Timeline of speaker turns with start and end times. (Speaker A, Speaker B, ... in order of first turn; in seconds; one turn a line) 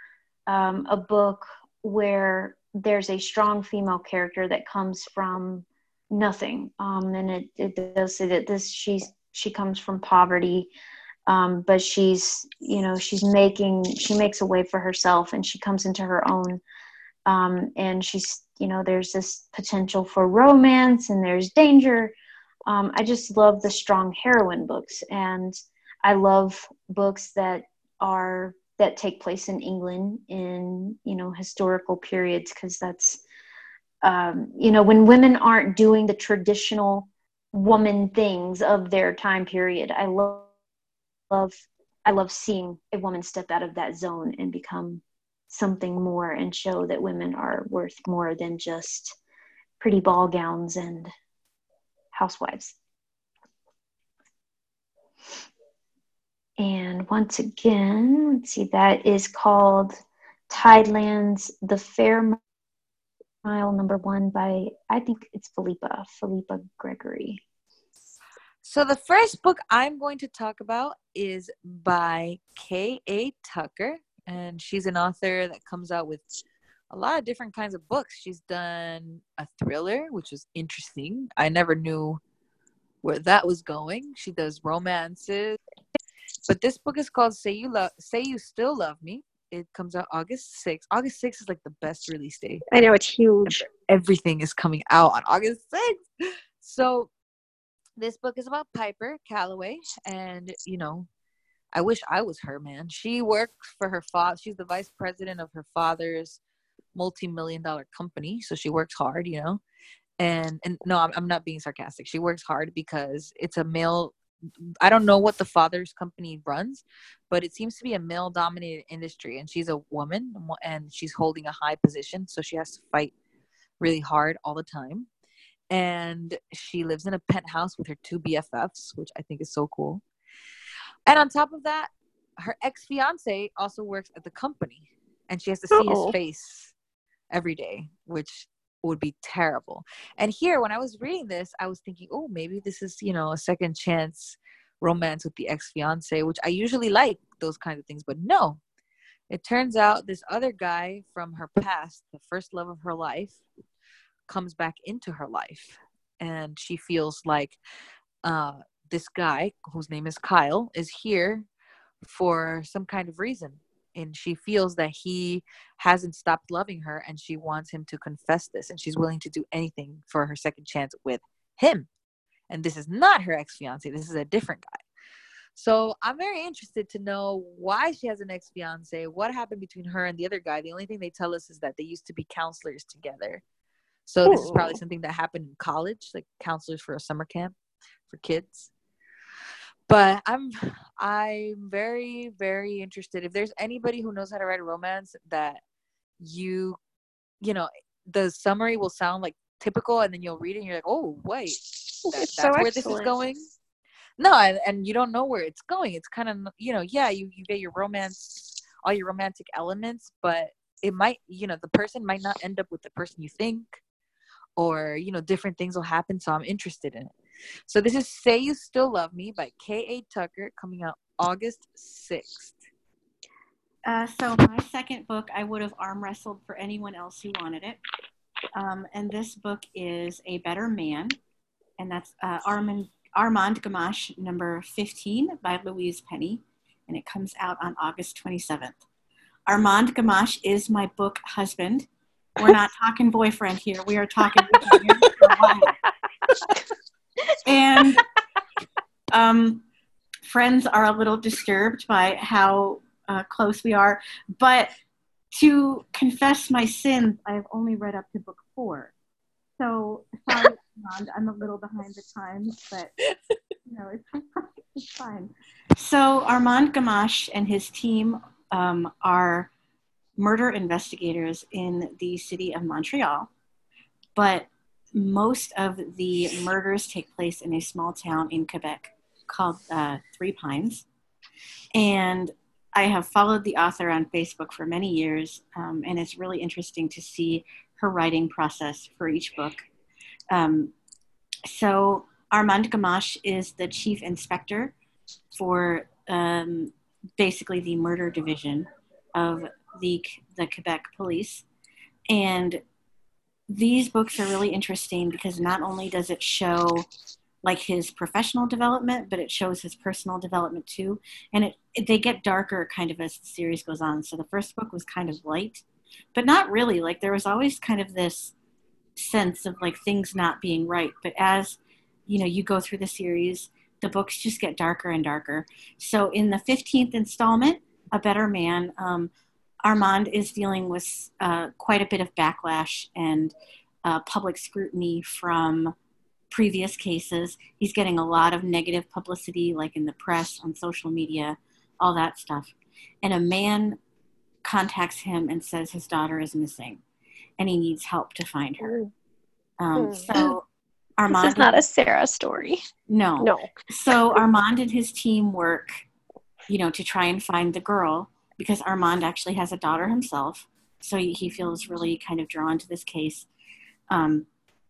Speaker A: 0.5-10.7
Speaker A: 11.3-16.6
Speaker A: 17.2-22.1
Speaker A: 22.6-33.2
Speaker A: 34.0-40.5
Speaker A: 41.3-49.2
Speaker A: 49.8-51.1
Speaker A: 52.1-52.8
Speaker A: 56.6-62.4
Speaker A: 63.4-67.4
Speaker B: 68.6-76.2
Speaker B: 76.9-82.2
Speaker B: 83.0-85.6
Speaker B: 86.5-92.6
Speaker C: 92.7-93.6
Speaker D: 93.1-93.6
Speaker B: 93.7-96.0
Speaker B: 96.6-97.1
Speaker B: 98.0-101.1
Speaker B: 101.7-106.4
Speaker B: 106.9-109.6
Speaker B: 110.2-114.2
Speaker B: 114.8-123.1
Speaker B: 123.8-125.1
Speaker B: 125.7-130.0
Speaker B: 131.1-136.7
Speaker C: 135.7-136.2
Speaker B: 137.3-148.6
Speaker B: 149.3-153.4
Speaker B: 154.3-157.6
Speaker B: 158.2-161.5
Speaker B: 162.0-171.9
Speaker B: 172.5-174.8
Speaker B: 175.5-183.4
Speaker B: 184.1-187.5
Speaker C: 184.2-184.8
Speaker B: 188.1-188.7
Speaker B: 189.9-195.6
Speaker B: 196.2-196.8
Speaker B: 197.4-203.5
Speaker C: 202.1-203.2
Speaker B: 204.2-213.8
Speaker B: 214.6-217.1
Speaker B: 217.7-222.6
Speaker E: 223.8-227.8
Speaker E: 228.5-231.2
Speaker E: 231.8-238.8
Speaker E: 239.5-245.8
Speaker E: 247.4-248.0
Speaker E: 249.1-249.6
Speaker E: 250.2-254.7
Speaker E: 255.3-258.9
Speaker E: 259.6-262.9
Speaker E: 263.6-269.5
Speaker E: 270.2-273.3
Speaker E: 274.1-280.9
Speaker E: 281.7-289.6
Speaker E: 290.3-290.7
Speaker E: 291.4-294.7
Speaker E: 295.3-301.4
Speaker E: 302.1-302.6
Speaker E: 303.5-306.9
Speaker E: 307.4-318.4
Speaker E: 318.9-329.1
Speaker E: 329.6-335.7
Speaker E: 336.3-343.8
Speaker E: 344.4-346.8
Speaker E: 347.4-348.8
Speaker E: 349.6-350.4
Speaker C: 349.8-350.1
Speaker D: 350.1-350.4
Speaker E: 351.0-351.6
Speaker D: 351.1-352.6
Speaker E: 352.9-355.8
Speaker C: 353.2-353.5
Speaker E: 356.5-363.3
Speaker E: 363.9-364.3